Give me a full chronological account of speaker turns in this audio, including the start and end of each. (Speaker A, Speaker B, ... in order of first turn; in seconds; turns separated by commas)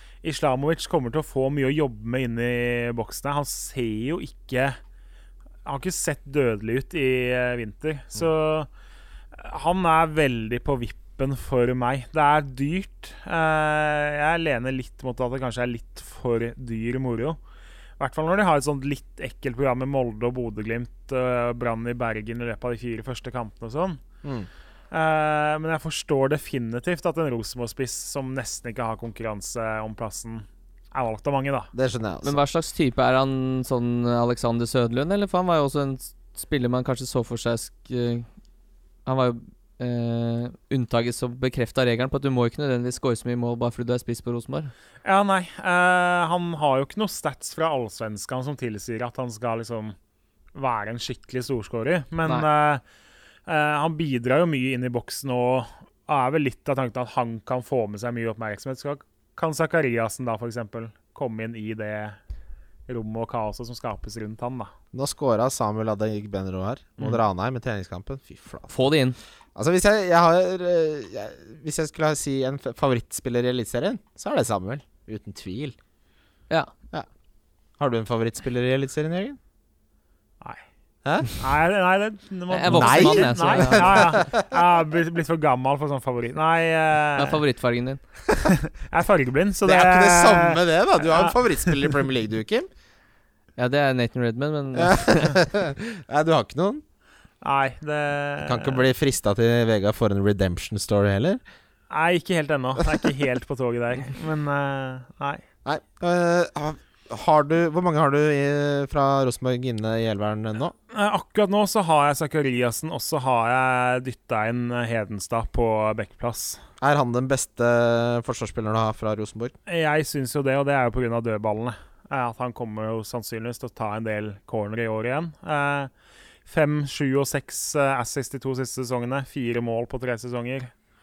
Speaker A: 0.2-4.8, Speaker A: 5.6-8.7, Speaker A: 9.3-17.4, Speaker A: 18.0-24.0, Speaker B: 24.2-24.5, Speaker A: 24.9-31.7, Speaker B: 31.7-32.4, Speaker C: 32.2-38.2, Speaker C: 39.0-44.7, Speaker A: 45.0-49.9, Speaker A: 50.5-52.8, Speaker A: 53.5-62.2, Speaker A: 62.9-64.7, Speaker B: 64.9-68.7, Speaker C: 68.7-69.2, Speaker B: 69.5-75.8, Speaker B: 77.8-79.4, Speaker A: 81.2-87.4, Speaker C: 82.5-84.2, Speaker B: 82.7-84.5, Speaker C: 87.2-88.0, Speaker A: 88.3-91.9, Speaker B: 89.6-92.7, Speaker C: 93.6-95.3, Speaker B: 94.8-96.8, Speaker A: 97.4-98.8, Speaker B: 98.4-101.4, Speaker A: 101.9-105.4, Speaker B: 105.6-110.7, Speaker A: 110.9-116.6, Speaker B: 116.8-119.5, Speaker A: 119.7-125.9, Speaker A: 126.5-130.7